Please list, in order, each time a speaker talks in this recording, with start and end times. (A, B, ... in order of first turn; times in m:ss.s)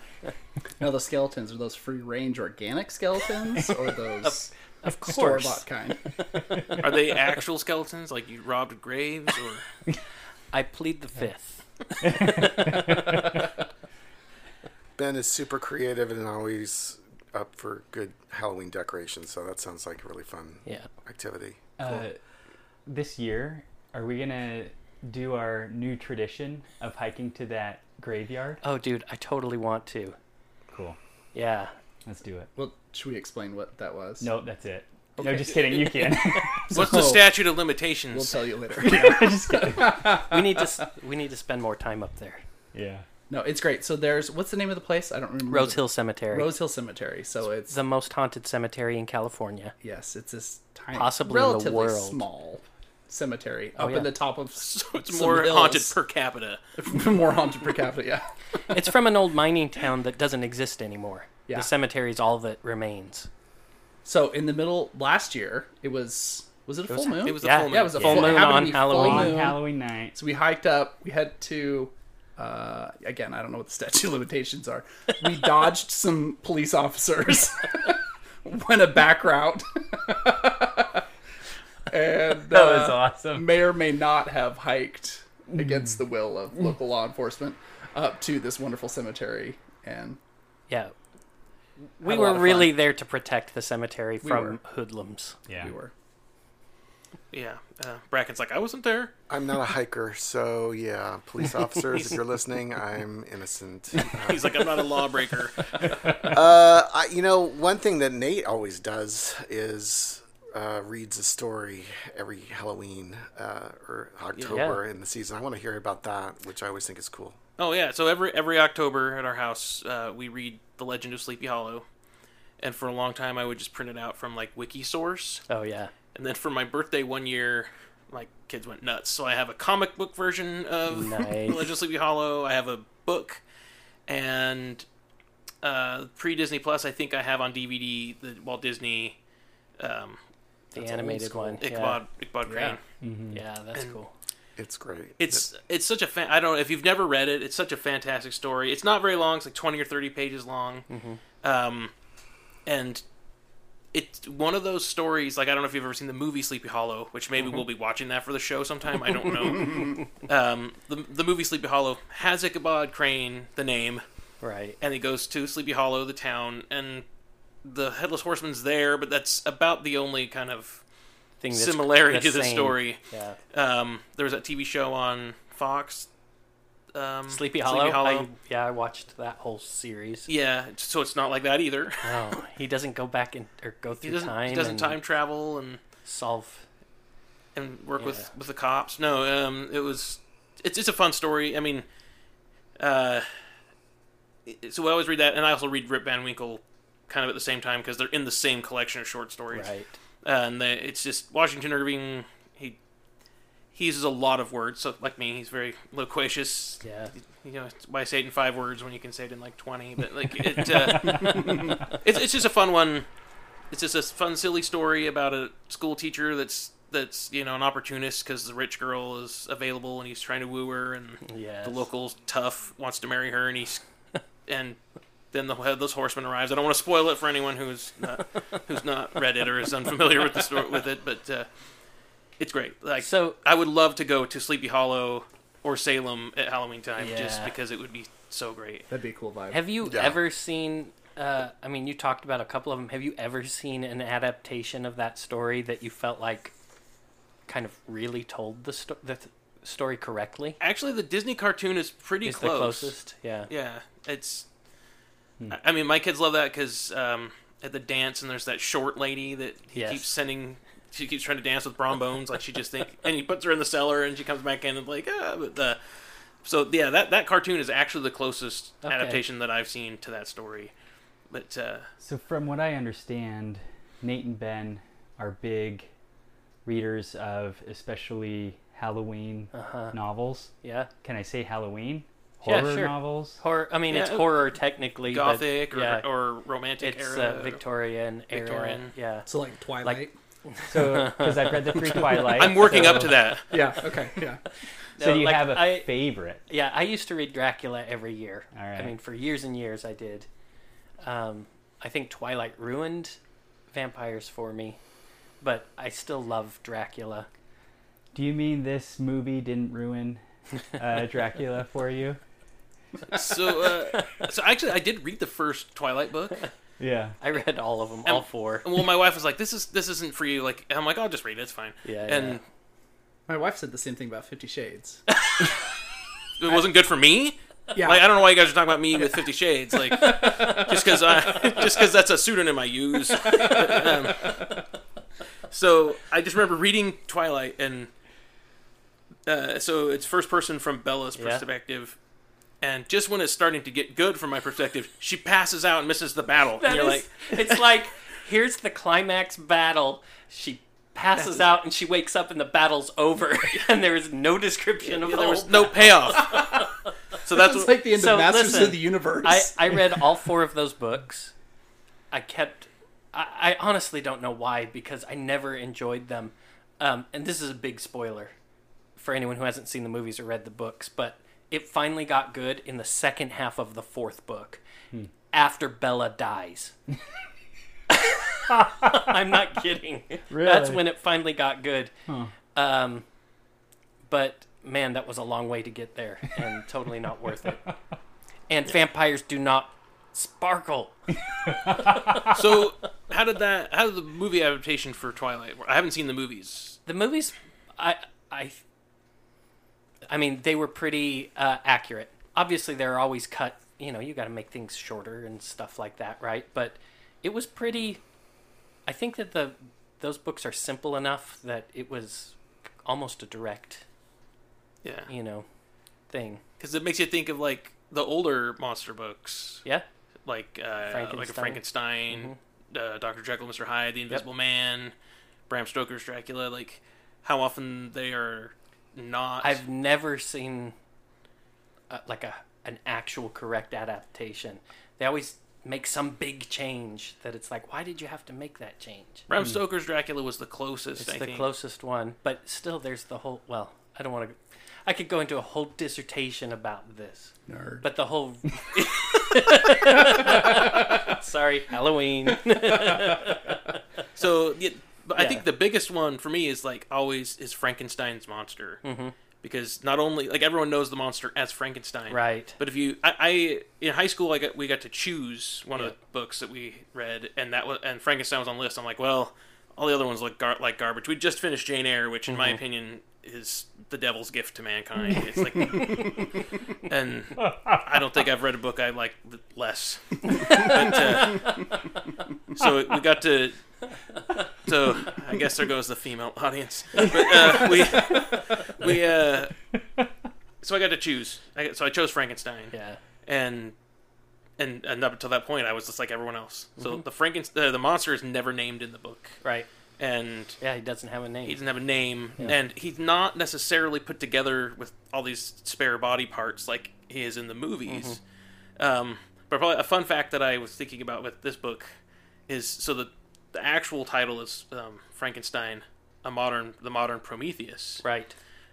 0:00.8-0:06.0 A
0:04.2-0:07.0 B
0:06.8-0:09.6 C
0:10.5-0:13.3 B
0:12.0-0:13.4 D
0:15.0-0:22.1 E
0:21.8-0:22.2 D
0:22.8-0:28.6 D
0:28.6-0:30.2 B
0:31.3-0:31.7 B
0:32.1-0:32.5 D
0:32.6-0:34.3 A
0:34.2-0:36.8 D
0:35.2-0:36.1 A
0:36.7-0:37.4 A
0:36.7-0:38.4 C
0:38.1-0:40.7 A
0:38.8-0:40.2 D
0:40.3-0:42.4 B
0:42.7-0:43.0 D
0:43.3-0:47.8 A
0:45.5-0:46.5 B
0:47.7-0:49.7 B
0:49.8-0:55.9 A
0:50.9-0:52.2 B
0:53.8-0:54.1 B
0:54.6-0:56.6 C
0:56.8-0:58.2 A
0:58.7-1:03.3 B
1:04.0-1:21.0 A
1:06.9-1:09.4 B
1:07.2-1:08.3 C
1:08.0-1:10.2 D
1:21.9-1:30.2 A
1:22.5-1:23.5 D
1:25.5-1:26.0 D
1:30.7-1:30.9 B
1:32.0-1:35.4 B
1:32.0-1:32.7 A
1:34.2-1:34.6 A
1:35.6-1:35.9 A
1:37.3-1:39.1 C
1:39.3-1:44.7 E
1:44.0-1:46.2 C
1:45.8-1:46.2 D
1:46.2-1:57.4 E
1:54.5-1:54.8 B
1:57.6-2:01.8 C
2:02.6-2:05.4 C
2:05.5-2:05.9 B
2:06.1-2:13.4 C
2:10.9-2:11.7 B
2:14.1-2:14.8 C
2:15.6-2:19.2 C
2:19.8-2:20.2 C
2:20.7-2:22.0 B
2:20.8-2:22.8 C
2:21.2-2:21.6 A
2:22.4-2:22.8 A
2:23.0-2:23.4 D
2:23.3-2:24.1 B
2:24.6-2:25.4 E
2:25.2-2:30.8 C
2:30.9-2:31.2 B
2:31.4-2:31.9 C
2:32.7-2:33.0 C
2:33.9-2:44.0 C
2:44.4-2:44.8 B
2:44.8-2:47.0 C
2:47.6-2:50.8 C
2:51.4-2:53.4 B
2:51.5-2:53.0 C
2:53.5-2:56.1 C
2:56.9-2:58.3 C
2:57.3-3:00.3 B
3:00.3-3:02.2 C
3:02.0-3:05.0 B
3:04.0-3:05.8 C
3:06.0-3:06.6 B
3:07.5-3:11.8 C
3:08.0-3:08.3 B
3:12.8-3:13.3 C
3:14.5-3:19.7 C
3:19.5-3:20.0 B
3:20.2-3:22.8 C
3:23.7-3:33.0 C
3:26.8-3:27.1 B
3:31.0-3:31.4 D
3:31.2-3:31.7 A
3:33.7-3:43.8 C
3:41.2-3:41.9 B
3:44.5-3:44.8 C
3:45.3-3:51.5 C
3:52.4-3:58.9 C
3:53.0-3:53.4 B
3:57.0-3:57.5 B
3:58.9-3:59.6 A
3:59.5-4:06.5 B
3:59.8-4:00.2 E
4:07.5-4:10.6 B
4:10.6-4:12.9 C
4:12.2-4:13.5 B
4:13.5-4:14.5 C
4:15.5-4:25.8 C
4:19.7-4:20.0 B
4:26.4-4:30.7 C
4:28.8-4:29.2 B
4:31.3-4:31.9 C
4:32.0-4:35.9 D
4:36.6-4:40.5 D
4:39.5-4:40.0 B
4:40.6-4:40.9 B
4:41.0-4:43.4 D
4:42.4-4:46.0 B
4:43.9-4:44.4 C
4:45.1-4:47.6 C
4:46.8-4:49.3 B
4:48.3-4:48.9 C
4:49.3-4:50.1 A
4:49.8-4:52.4 B
4:50.7-4:53.3 D
4:52.4-4:53.5 C
4:53.5-4:54.4 A
4:55.0-4:55.9 B
4:55.0-4:56.4 D
4:56.5-5:00.3 B
4:58.5-4:59.0 D
5:01.0-5:03.2 B
5:03.7-5:04.8 B
5:05.4-5:07.3 B
5:08.1-5:10.2 D
5:10.7-5:12.2 D
5:13.1-5:16.5 C
5:13.9-5:14.2 B
5:16.8-5:17.2 D
5:17.2-5:18.7 B
5:18.0-5:22.4 C
5:21.8-5:22.4 B
5:23.3-5:25.0 A
5:25.2-5:25.5 C
5:26.4-5:34.4 C
5:27.7-5:28.0 A
5:29.7-5:31.4 A
5:33.3-5:34.4 A
5:35.5-5:37.9 C
5:39.3-5:42.0 C
5:41.2-5:41.4 B
5:42.6-5:47.6 C
5:46.6-5:56.8 B
5:54.8-5:56.4 C
5:56.2-5:56.7 A
5:57.2-5:57.8 C
5:57.3-6:00.0 A
5:57.9-6:01.3 B
6:02.1-6:08.3 B
6:09.0-6:14.6 B
6:15.3-6:16.8 B
6:17.9-6:21.9 B
6:20.3-6:20.8 D
6:22.5-6:23.0 B
6:24.1-6:27.6 B
6:28.5-6:31.0 B
6:31.4-6:32.3 D
6:32.3-6:36.8 C
6:36.9-6:38.6 B
6:40.1-6:48.0 B
6:48.9-6:53.8 B
6:54.8-6:55.1 C
6:55.1-6:55.4 B
6:56.1-6:56.4 B
6:56.6-6:59.6 C
7:00.2-7:04.9 C
7:00.9-7:02.4 B
7:05.5-7:09.6 C
7:09.4-7:10.8 B
7:11.9-7:19.3 B
7:19.3-7:21.5 C
7:21.0-7:33.8 B
7:27.5-7:27.8 A
7:30.6-7:31.0 A
7:34.2-7:38.8 C
7:35.2-7:35.4 B
7:38.8-7:39.1 B
7:39.4-8:01.8 C
7:42.1-7:42.6 B
7:52.3-7:52.6 B
7:57.5-7:57.8 D
8:00.3-8:01.5 B
8:02.5-8:03.6 C
8:04.6-8:09.5 C
8:10.6-8:12.7 C
8:12.7-8:13.0 B
8:13.2-8:13.8 C
8:14.6-8:19.4 C
8:16.8-8:17.0 B
8:19.4-8:19.7 B
8:20.0-8:20.6 C
8:20.6-8:21.6 B
8:21.4-8:28.2 C
8:27.9-8:28.2 B
8:28.8-8:31.9 C
8:32.5-8:38.0 C
8:38.0-8:38.4 B